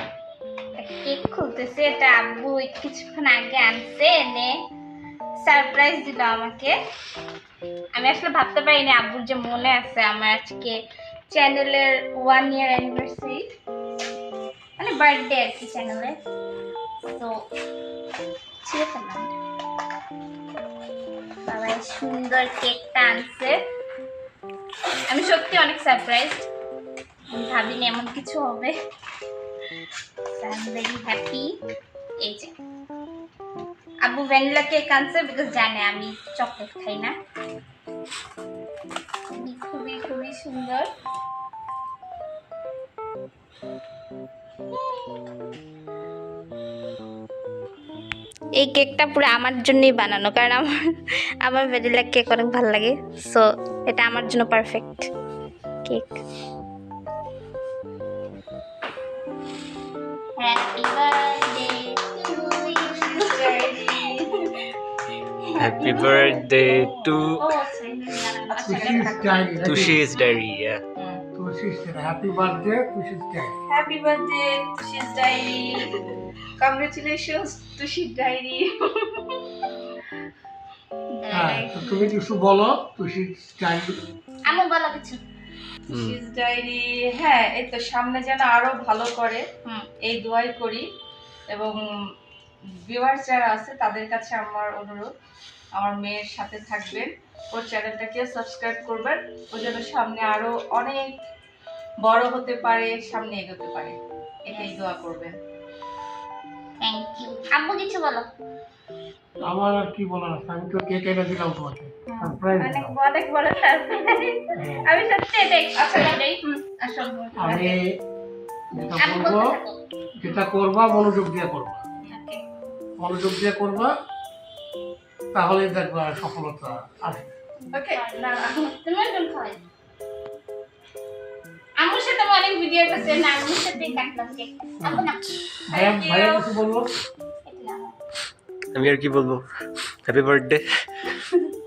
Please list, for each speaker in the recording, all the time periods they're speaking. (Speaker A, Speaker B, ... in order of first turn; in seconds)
Speaker A: 0.8-4.5, 5.4-6.7, 7.9-10.8, 11.3-13.5, 14.8-16.1, 18.6-19.3, 21.4-23.6, 25.1-26.5, 27.3-28.7, 30.3-31.5, 32.2-32.5, 34.0-37.1, 39.3-40.9, 48.6-50.7, 51.4-55.1, 55.9-56.2, 60.4-64.3, 65.4-69.3, 81.2-82.1, 84.5-85.2, 104.5-104.8, 106.8-108.3, 112.1-116.4, 119.0-119.8, 122.1-122.4, 127.6-129.6, 131.8-135.3, 137.4-137.9
Speaker B: 62.9-64.3, 68.5-69.9, 73.7-76.0, 76.6-79.4, 85.9-89.4, 90.1-90.8, 91.5-91.8, 92.9-95.1, 95.8-101.2, 102.0-104.0, 104.5-105.3, 116.5-117.8, 127.7-128.0, 135.7-136.5
Speaker C: 65.6-67.4, 69.6-70.8, 85.9-86.2, 138.7-139.4, 140.0-140.6
Speaker D: 68.7-70.0, 71.3-73.5, 81.3-84.0, 109.5-113.0, 114.6-114.9, 117.4-117.8, 118.7-119.6, 120.2-121.8, 123.0-123.9, 125.3-127.3, 134.8-135.1, 135.7-136.9